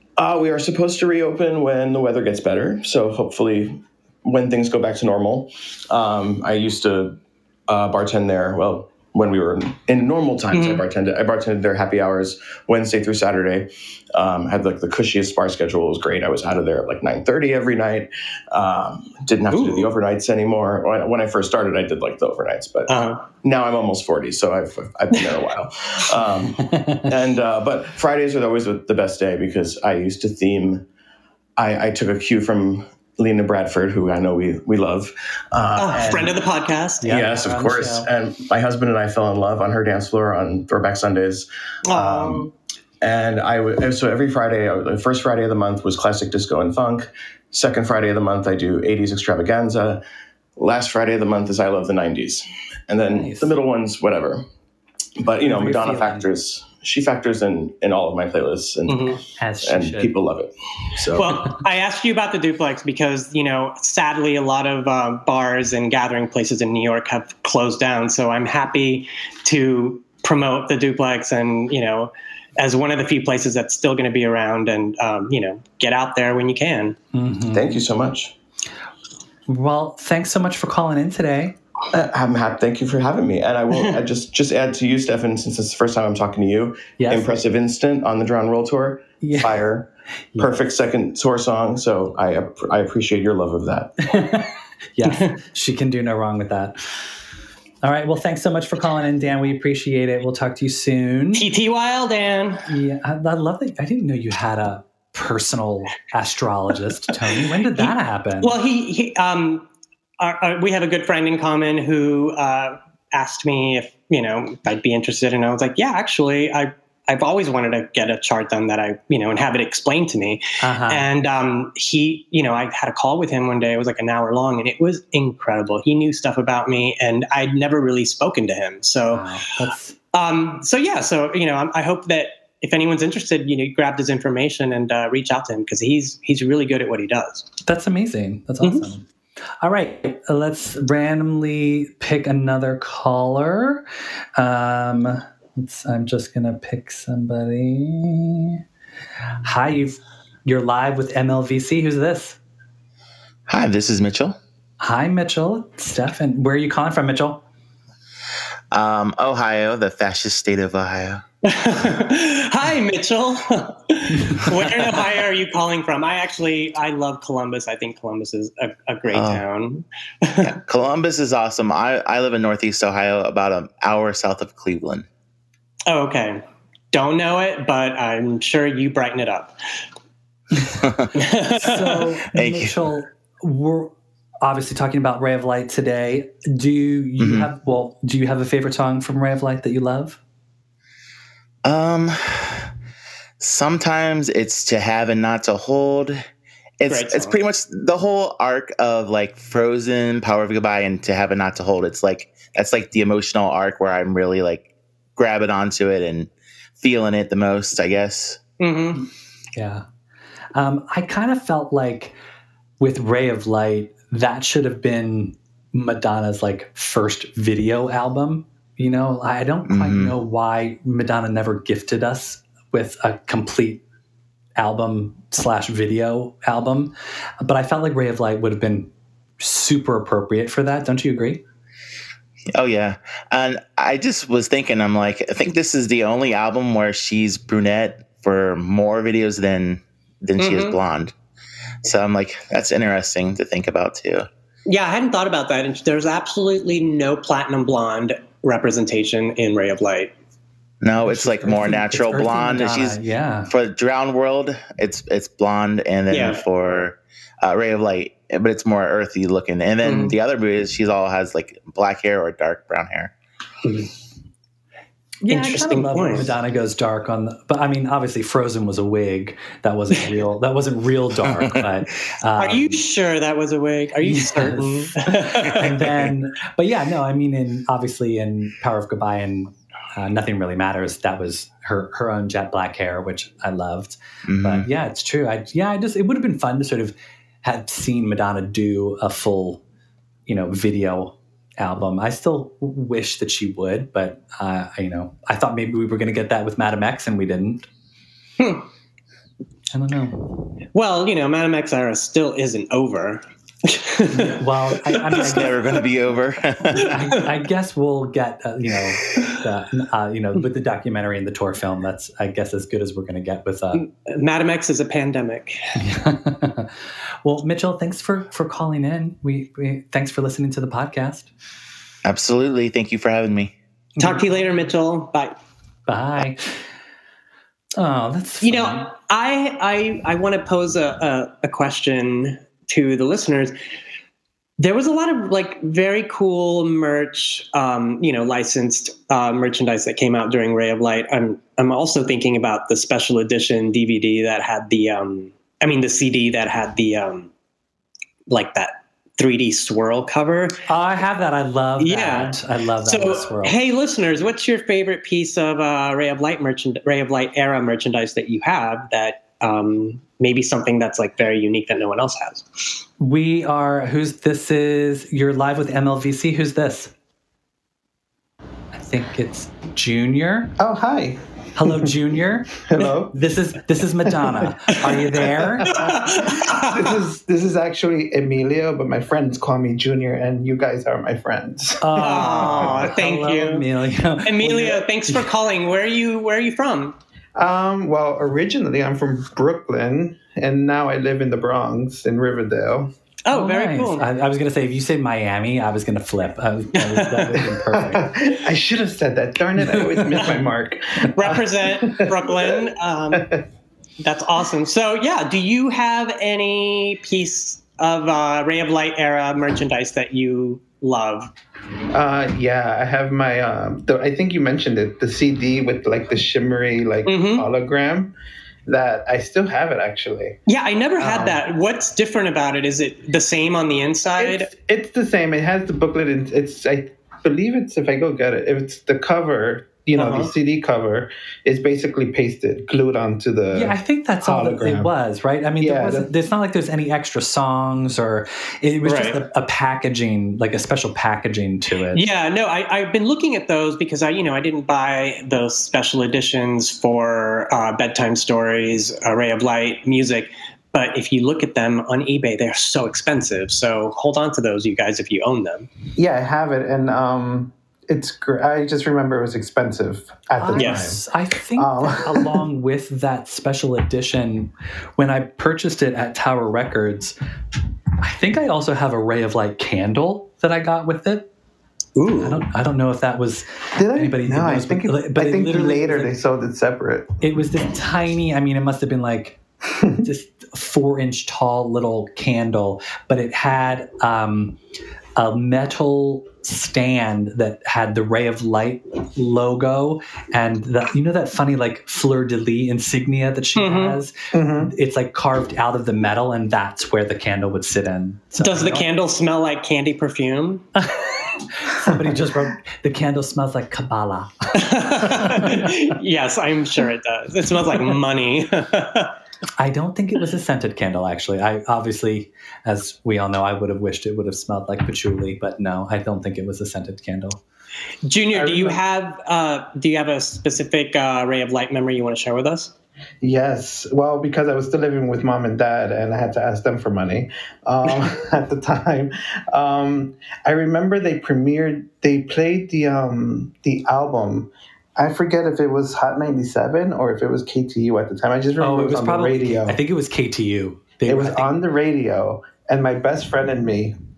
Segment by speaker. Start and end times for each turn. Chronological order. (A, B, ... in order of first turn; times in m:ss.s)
0:00.2-0:07.2 A
0:07.7-0:30.8 A
0:10.5-0:10.8 B
0:19.5-0:19.9 B
0:22.9-0:23.2 B
0:26.5-0:27.2 C
0:31.6-0:36.5 A
0:35.8-0:37.1 B
0:37.0-0:38.1 C
0:37.0-0:42.5 A
0:41.9-0:42.5 B
0:43.0-0:50.0 A
0:50.6-0:54.4 A
0:53.1-0:53.6 C
0:55.2-1:01.3 A
0:55.4-0:56.3 C
0:58.9-0:59.2 B
0:59.4-1:00.1 C
1:01.2-1:17.0 B
1:17.1-1:17.8 C
1:17.5-1:18.3 A
1:19.5-1:21.6 C
1:21.9-1:29.9 A
1:27.0-1:27.3 C
1:29.2-1:29.6 C
1:30.3-1:30.6 C
1:30.4-1:34.0 A
1:34.0-1:36.8 C
1:35.1-1:35.3 B
1:37.8-1:41.4 C
1:41.3-1:42.7 B
1:42.7-1:48.5 C
1:47.7-1:49.6 B
1:50.2-2:09.3 B
2:00.6-2:01.0 C
2:09.1-2:10.0 C
2:10.1-2:17.5 B
2:17.6-2:19.0 C
2:18.6-2:18.9 B
2:19.6-2:23.8 C
2:24.4-2:28.6 C
2:29.4-2:32.4 C
2:33.5-2:34.4 D
2:34.8-2:37.4 C
2:38.7-2:41.2 D
2:41.4-2:50.5 B
2:49.1-2:49.4 D
2:50.4-2:55.0 D
2:55.9-2:59.5 B
3:01.2-3:02.1 B
3:01.5-3:10.2 C
3:02.3-3:02.7 D
3:07.2-3:07.5 D
3:11.6-3:12.7 D
3:13.4-3:16.2 D
3:16.8-3:28.4 D
3:16.9-3:17.4 B
3:28.6-3:29.0 B
3:29.5-3:29.8 C
3:30.5-3:32.2 C
3:32.8-3:43.8 C
3:39.6-3:40.1 D
3:44.6-3:51.4 C
3:52.5-4:01.1 D
4:00.4-4:00.8 B
4:01.8-4:04.3 D
4:04.6-4:10.1 B
4:10.8-4:23.1 D
4:11.0-4:13.5 C
4:16.1-4:16.4 B
4:19.8-4:20.1 B
4:25.2-4:32.8 C
4:25.3-4:26.3 B
4:32.4-4:35.7 B
4:34.0-4:49.6 C
4:44.2-4:44.7 D
4:50.3-4:57.7 C
4:58.4-4:58.6 B
4:59.7-5:00.4 C
5:00.7-5:04.4 B
5:04.1-5:05.8 C
5:04.9-5:05.3 B
5:05.0-5:07.2 D
5:06.7-5:07.3 B
5:06.8-5:13.8 C
5:13.7-5:15.6 B
5:15.8-5:21.3 C
5:22.0-5:23.5 D
5:24.0-5:24.3 C
5:24.0-5:25.3 B
5:25.9-5:26.6 C
5:27.8-5:28.9 C
5:28.4-5:33.5 B
5:34.6-5:47.3 B
5:48.3-5:50.6 B
5:50.7-5:53.6 C
5:51.8-6:02.4 B
6:03.0-6:06.9 C
6:08.7-6:10.5 C
6:10.6-6:11.2 E
6:11.6-6:15.7 C
6:12.7-6:13.1 E
6:14.1-6:14.5 E
6:15.4-6:22.9 E
6:15.7-6:16.8 B
6:21.8-6:25.2 C
6:22.0-6:23.6 B
6:24.2-6:27.0 B
6:27.4-6:32.9 E
6:33.2-6:34.0 B
6:33.3-6:38.1 C
6:36.7-6:37.5 B
6:37.7-6:42.6 E
6:40.0-6:40.4 B
6:41.1-6:43.3 B
6:43.1-6:43.4 E
6:44.0-6:51.3 B
6:51.9-6:58.1 E
6:57.0-6:57.4 B
6:58.7-7:00.4 E
7:00.5-7:04.5 B
7:01.0-7:01.4 E
7:04.2-7:14.9 E
7:10.0-7:10.3 B
7:13.5-7:22.0 C
7:15.6-7:16.1 E
7:18.8-7:19.2 B
7:21.9-7:35.7 B
7:36.0-7:41.0 E
7:40.4-7:47.2 C
7:40.6-7:40.9 B
7:41.6-7:42.4 E
7:48.0-7:51.2 C
7:52.0-7:52.4 B
7:52.2-7:56.1 C
7:53.7-7:57.1 E
7:57.2-7:59.4 C
8:00.0-8:04.6 C
8:05.2-8:18.9 C
8:13.6-8:14.0 B
8:14.3-8:14.7 E
8:18.4-8:20.6 B
8:20.8-8:25.7 C
8:24.6-8:29.1 B
8:29.6-8:37.4 C
8:38.0-8:42.7 B
8:38.3-8:38.8 E
8:43.2-8:59.8 E
8:58.6-9:01.5 C
9:01.0-9:03.9 E